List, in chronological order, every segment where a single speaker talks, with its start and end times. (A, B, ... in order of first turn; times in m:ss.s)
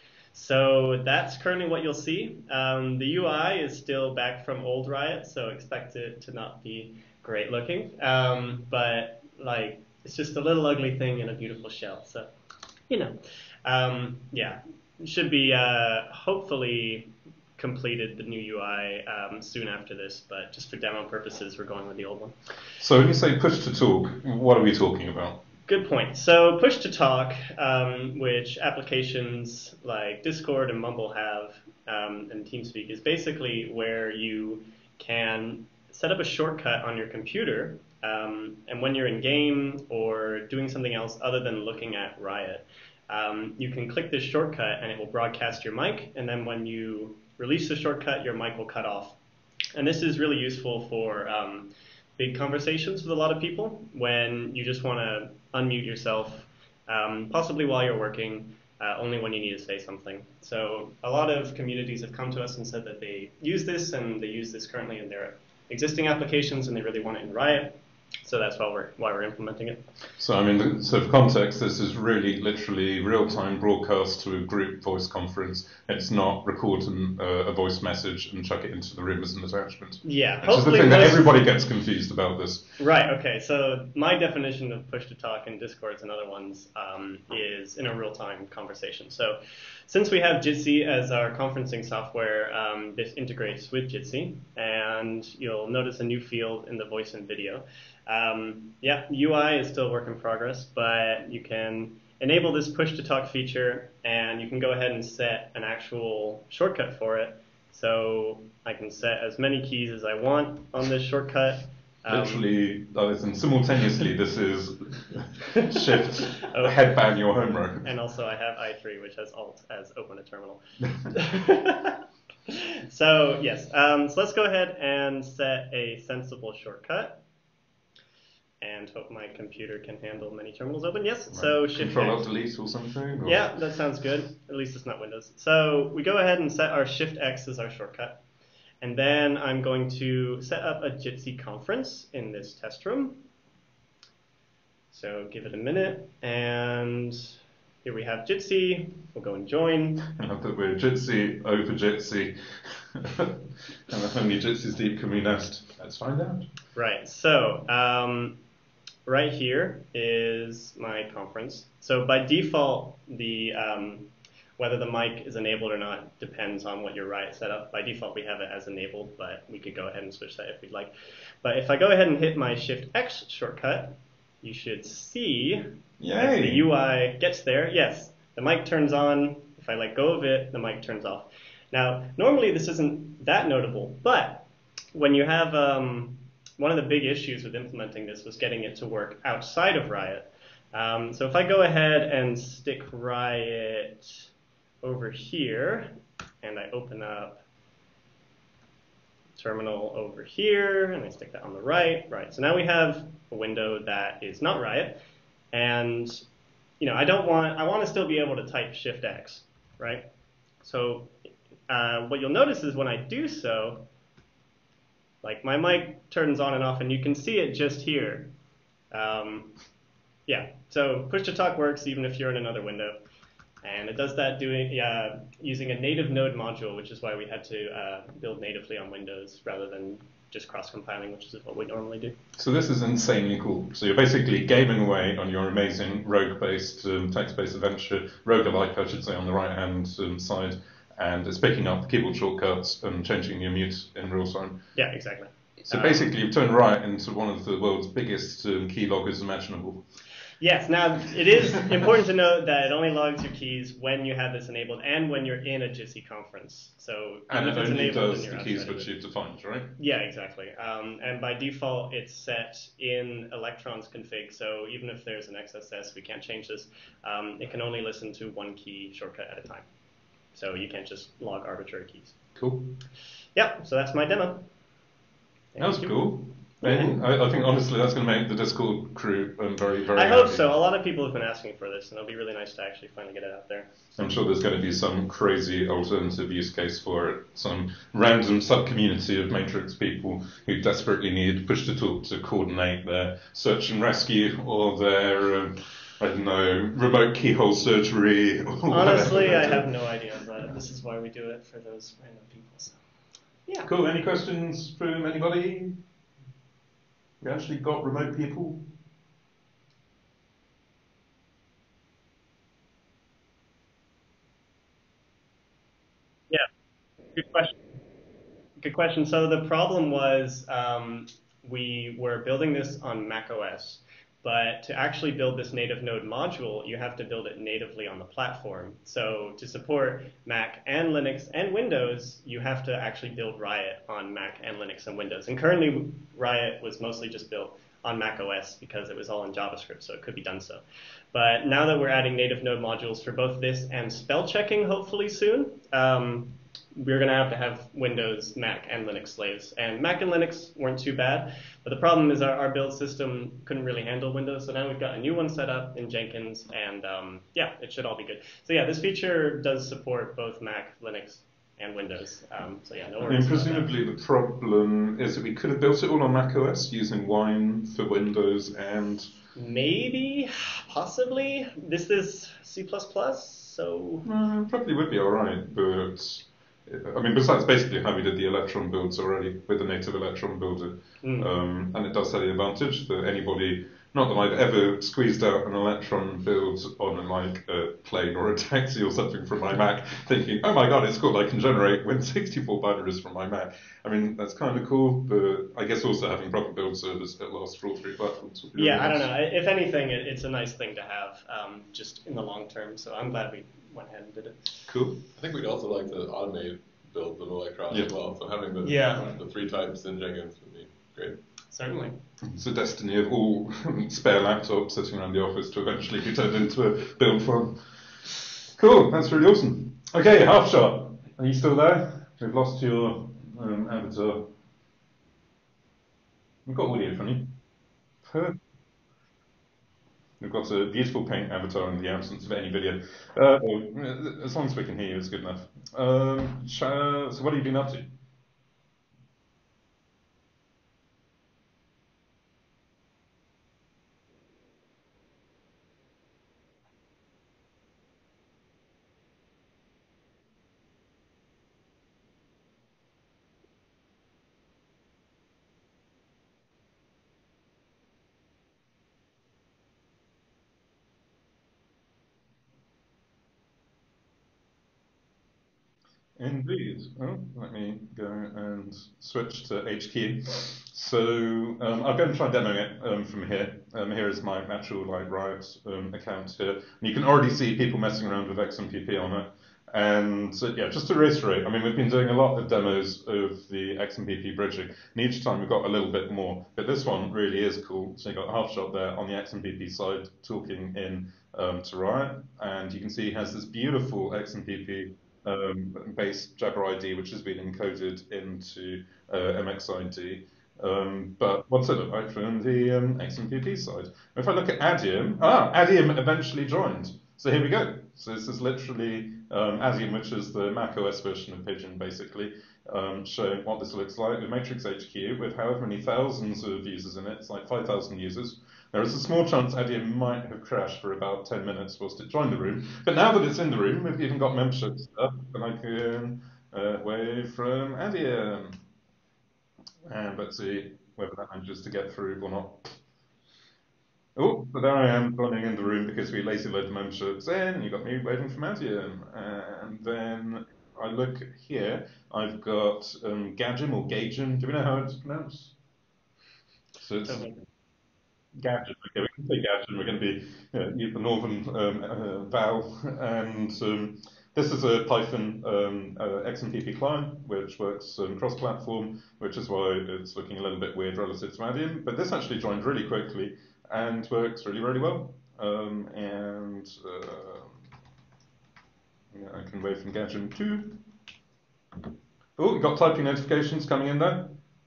0:00.3-0:12.3 A
0:12.9-0:22.4 A
0:22.8-0:25.4 B
0:25.6-0:49.2 A
0:49.7-1:07.7 A
1:08.2-1:09.8 A
1:10.2-1:22.8 B
1:20.0-1:21.4 A
1:22.8-1:52.5 A
1:52.1-1:57.9 B
1:55.7-1:57.1 A
1:57.8-2:07.2 A
2:08.6-2:12.3 A
2:11.3-2:13.5 B
2:13.1-2:18.2 A
2:18.8-2:23.3 A
2:24.9-2:30.1 A
2:30.1-2:36.5 B
2:36.7-2:38.4 A
2:39.0-3:14.3 A
2:56.0-2:56.7 B
3:14.8-3:17.4 A
3:19.4-3:26.2 A
3:26.8-3:30.1 A
3:30.6-3:31.2 A
3:31.7-3:33.9 A
3:35.2-3:38.3 A
3:38.9-3:39.6 A
3:40.3-3:43.0 A
3:43.6-3:52.2 A
3:52.4-4:04.6 B
4:04.8-4:06.1 A
4:05.7-4:09.8 B
4:10.4-4:18.9 A
4:17.3-4:19.8 B
4:19.8-4:29.6 A
4:30.3-4:32.1 A
4:32.3-4:32.8 B
4:33.3-4:34.5 A
4:35.5-4:37.0 A
4:35.6-4:40.5 B
4:39.9-4:43.7 A
4:44.0-4:59.7 B
4:58.7-5:02.8 A
5:03.6-5:05.8 B
5:07.2-5:08.6 B
5:17.1-5:17.6 A
5:18.6-6:03.7 A
6:03.0-6:09.1 B
6:09.3-6:14.1 A
6:14.0-6:39.1 B
6:21.0-6:21.3 A
6:38.5-6:44.7 A
6:44.6-6:45.1 B
6:45.1-6:51.2 C
6:48.6-6:49.2 A
6:51.5-6:52.0 A
6:52.2-6:57.6 B
6:58.5-7:04.3 B
7:06.4-7:07.4 B
7:08.1-7:08.4 B
7:10.2-7:17.9 B
7:46.2-8:48.6 B
8:49.8-8:52.7 B
8:54.2-9:05.5 B
9:06.8-9:07.3 B
9:07.0-9:07.4 A
9:08.4-9:27.6 B
9:29.1-9:30.8 B
9:32.4-9:34.4 B